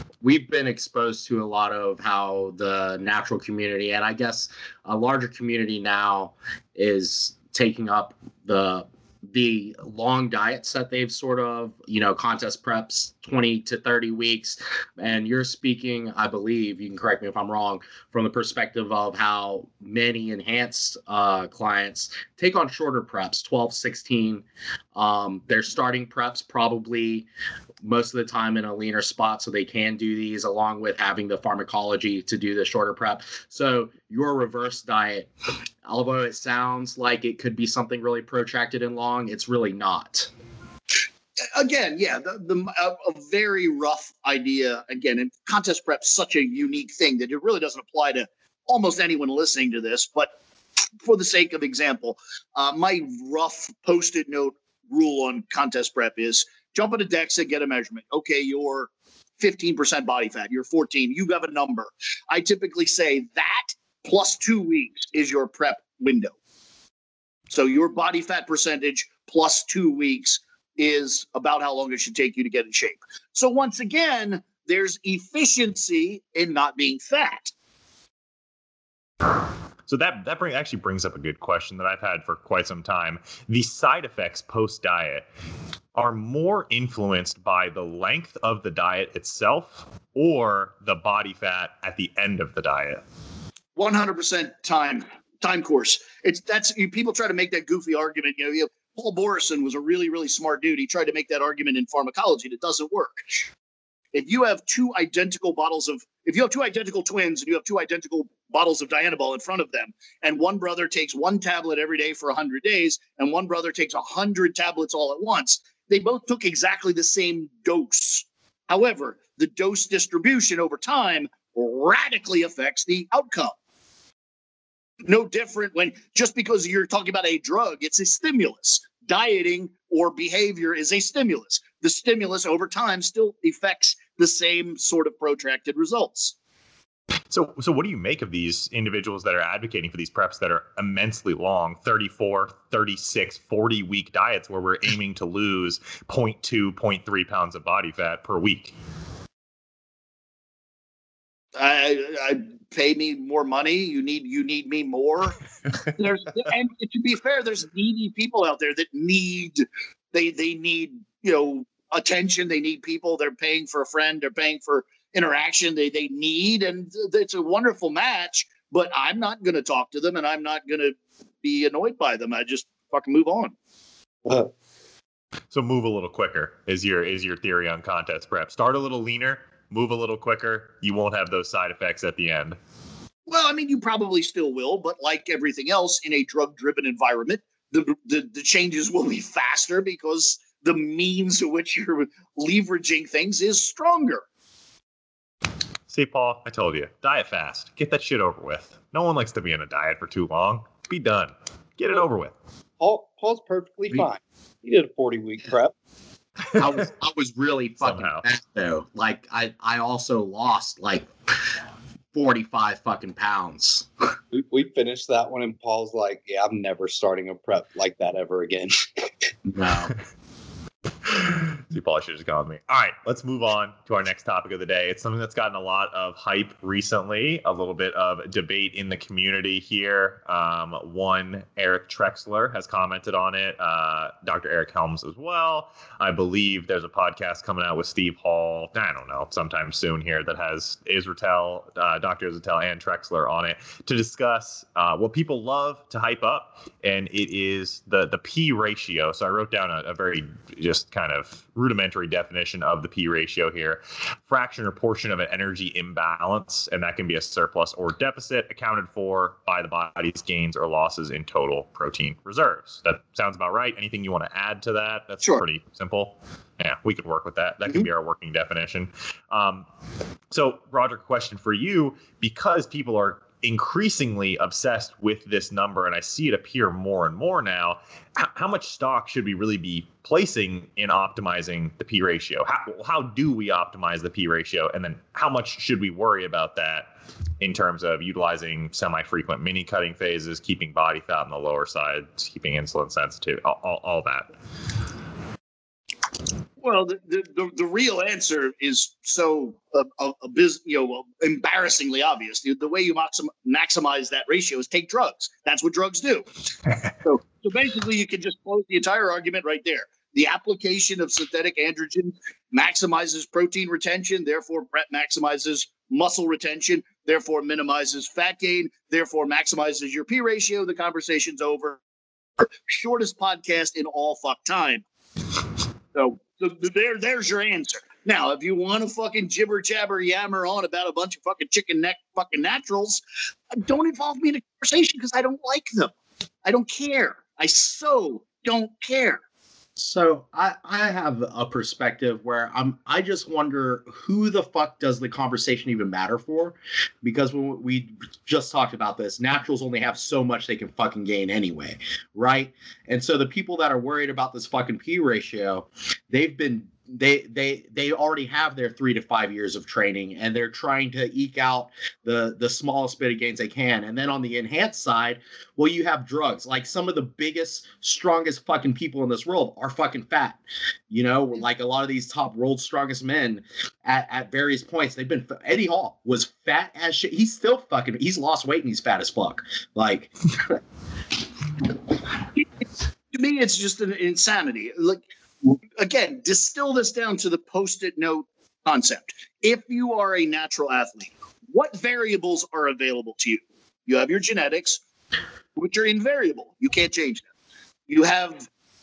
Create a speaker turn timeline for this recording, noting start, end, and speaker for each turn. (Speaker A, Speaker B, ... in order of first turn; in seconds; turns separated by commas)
Speaker A: 0.2-27.3, Speaker A: 27.8-35.3, Speaker A: 35.8-40.3, Speaker B: 41.5-50.3, Speaker B: 51.0-66.3, Speaker B: 67.5-77.5, Speaker C: 79.9-85.2, Speaker C: 85.9-93.0, Speaker B: 93.8-103.2, Speaker B: 104.1-123.5, Speaker B: 125.0-136.3, Speaker C: 137.3-148.7, Speaker B: 151.6-155.4, Speaker B: 155.9-173.5, Speaker C: 175.5-182.6, Speaker B: 183.3-194.2, Speaker C: 195.9-202.3, Speaker D: 202.8-205.7, Speaker A: 206.5-211.1, Speaker C: 207.8-208.2, Speaker A: 212.1-213.9, Speaker D: 214.3-219.1, Speaker A: 219.4-219.9, Speaker C: 221.1-269.6, Speaker C: 270.3-294.3, Speaker B: 296.6-306.3, Speaker B: 307.0-321.8, Speaker B: 322.4-324.8, Speaker B: 325.9-333.0, Speaker B: 333.5-335.9, Speaker B: 336.4-339.2, Speaker A: 339.8-370.4, Speaker A: 370.9-380.6, Speaker B: 383.1-394.8, Speaker B: 395.6-397.2, Speaker B: 397.9-398.5